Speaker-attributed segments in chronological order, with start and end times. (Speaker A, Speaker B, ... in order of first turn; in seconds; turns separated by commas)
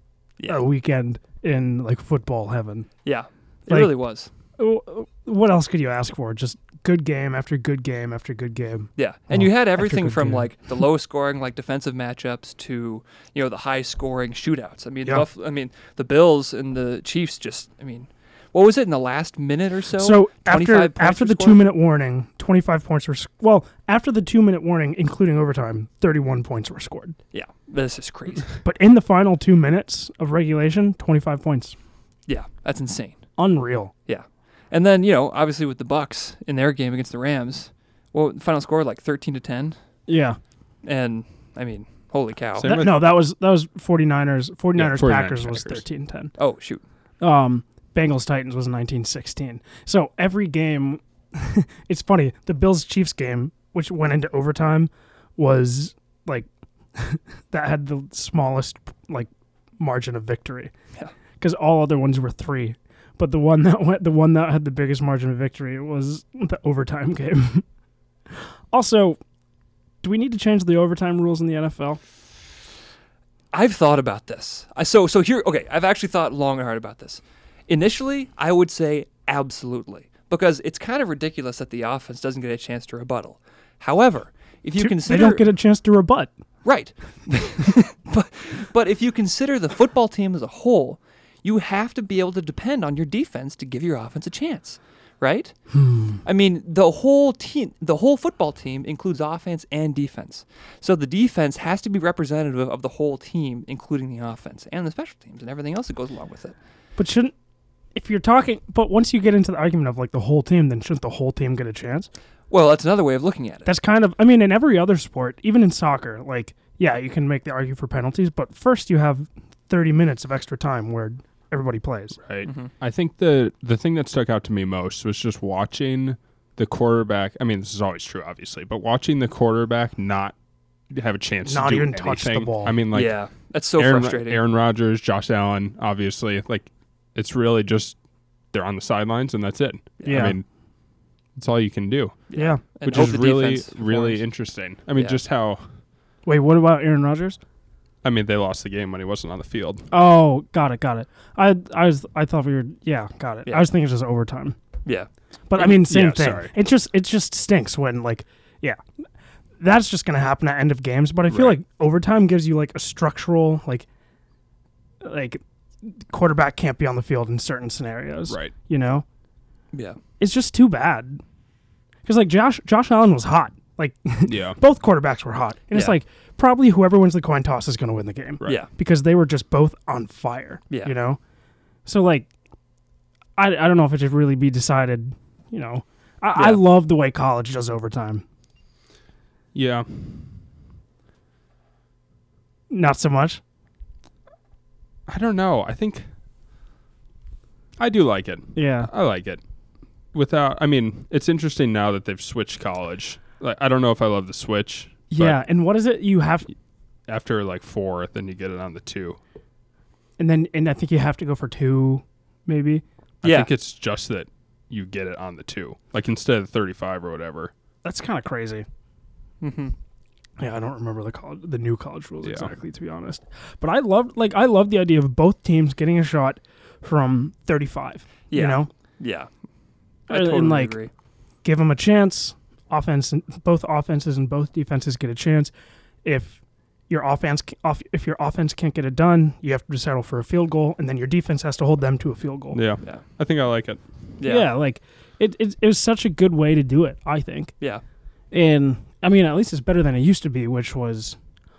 Speaker A: 0.4-0.7, Speaker B: 0.5-2.9, Speaker A: 3.0-4.3, Speaker B: 3.7-3.9, Speaker B: 4.6-10.5, Speaker A: 9.0-21.6, Speaker B: 20.0-27.2, Speaker A: 27.3-28.5, Speaker B: 28.6-31.8, Speaker A: 32.3-33.2, Speaker B: 33.4-33.9, Speaker A: 34.1-39.8, Speaker B: 40.1-40.4, Speaker A: 40.8-42.8, Speaker C: 42.6-43.1, Speaker B: 42.7-46.3, Speaker C: 44.8-45.8, Speaker A: 46.4-46.8, Speaker B: 47.2-60.7, Speaker B: 61.4-67.7, Speaker B: 68.7-69.2, Speaker B: 70.0-72.0, Speaker A: 73.5-85.5, Speaker B: 84.8-86.3, Speaker A: 86.6-95.6, Speaker B: 95.7-96.2, Speaker A: 96.2-106.5, Speaker B: 107.0-107.3, Speaker B: 108.0-112.1, Speaker A: 112.5-113.7, Speaker B: 113.7-122.2, Speaker C: 122.2-130.3, Speaker A: 122.5-122.7, Speaker C: 130.9-133.2, Speaker B: 131.5-132.8, Speaker A: 132.9-134.4, Speaker C: 133.8-138.0, Speaker C: 138.5-140.4, Speaker A: 140.0-140.3, Speaker B: 140.1-140.4, Speaker C: 141.4-142.2, Speaker A: 142.3-144.2, Speaker B: 142.3-142.6, Speaker C: 142.8-145.6, Speaker B: 146.3-147.4, Speaker C: 148.0-149.8, Speaker B: 149.9-154.6, Speaker B: 155.5-158.8, Speaker C: 155.6-156.5, Speaker B: 159.6-163.9, Speaker C: 161.3-161.6, Speaker B: 165.0-169.1, Speaker C: 168.3-168.5, Speaker A: 169.7-170.0, Speaker B: 170.2-171.2, Speaker B: 172.1-181.2, Speaker C: 174.3-174.6, Speaker B: 181.9-182.3, Speaker B: 183.4-188.2, Speaker A: 186.4-186.6, Speaker C: 189.5-190.3, Speaker B: 192.7-193.4, Speaker C: 195.1-196.1, Speaker C: 197.8-199.4, Speaker B: 198.6-198.9, Speaker C: 200.1-205.4, Speaker B: 205.1-206.5, Speaker C: 207.1-209.2, Speaker B: 210.2-212.8, Speaker C: 213.2-217.5, Speaker A: 213.2-213.5, Speaker B: 217.8-218.7, Speaker A: 219.4-219.8, Speaker B: 220.4-228.7, Speaker C: 222.2-222.5, Speaker A: 228.3-229.3, Speaker A: 230.1-230.9, Speaker B: 230.1-230.8, Speaker B: 231.4-235.5, Speaker B: 236.0-242.6, Speaker C: 242.5-243.8, Speaker A: 244.2-244.5, Speaker B: 244.2-247.5, Speaker B: 248.3-251.2